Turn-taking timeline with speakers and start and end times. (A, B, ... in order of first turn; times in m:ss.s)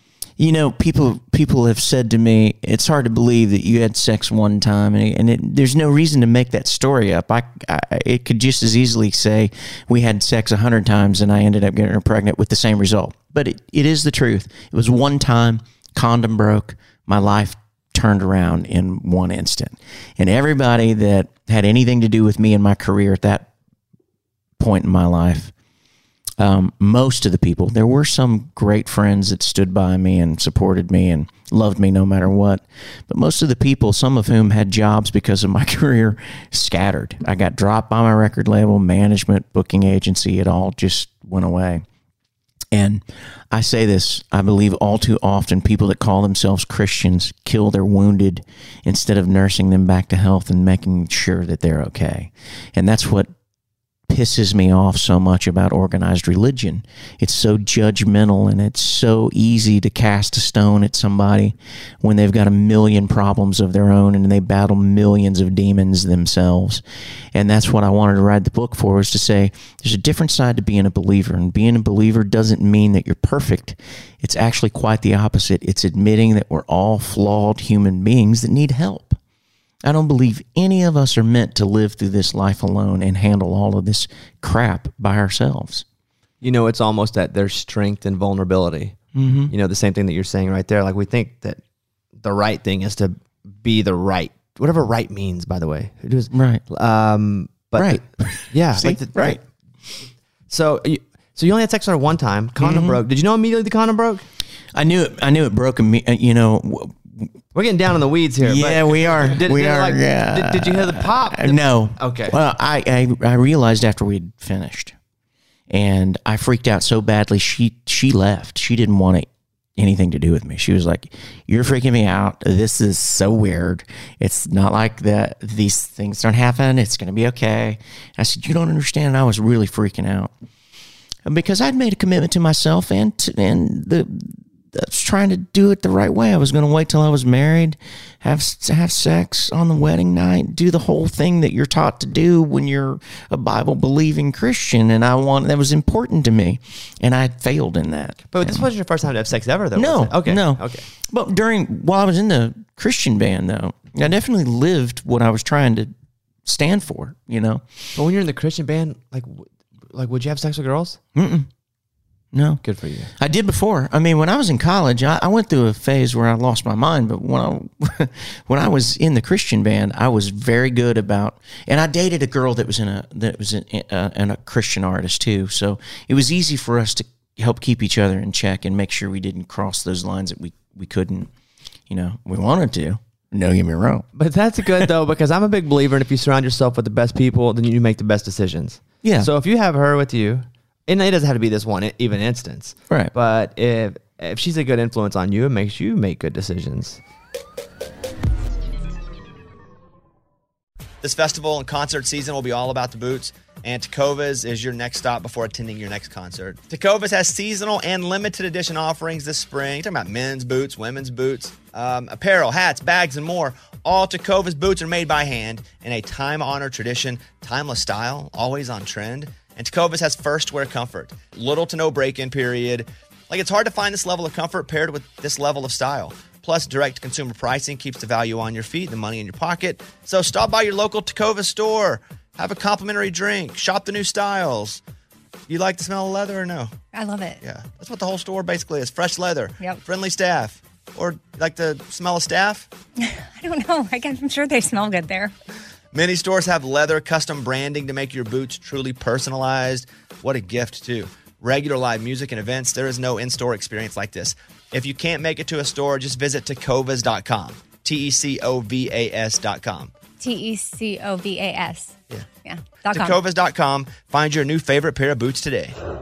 0:00.4-0:23.5 A
0:24.6-0:25.5 A
0:26.4-0:41.8 A
0:42.7-0:53.3 A
0:54.1-1:06.8 A
1:07.3-1:19.2 A
1:19.8-1:25.8 A
1:26.4-1:29.0 B
1:29.1-1:29.5 A
1:29.5-1:31.6 B
1:32.2-1:39.4 B
1:36.3-1:36.6 A
1:37.8-1:39.4 A
1:40.5-1:44.2 B
1:42.6-1:43.0 A
1:44.7-1:47.3 A
1:47.5-1:52.4 B
1:48.4-1:54.9 A
1:55.7-2:10.3 A
2:11.2-2:28.7 A
2:28.3-2:30.9 B
2:29.7-2:35.9 A
2:36.4-2:37.6 A
2:38.0-2:41.0 B
2:41.1-2:41.5 A
2:42.3-2:42.6 A
2:42.6-2:43.1 B
2:43.2-3:01.3 A
3:01.9-3:04.1 A
3:04.1-3:17.0 B
3:09.0-3:09.3 A
3:21.0-3:54.8 B
3:55.5-3:56.7 B
3:56.9-3:57.4 C
3:57.4-4:02.7 B
4:03.0-4:05.3 C
4:05.9-4:19.9 B
4:20.2-4:23.2 C
4:22.9-4:25.8 B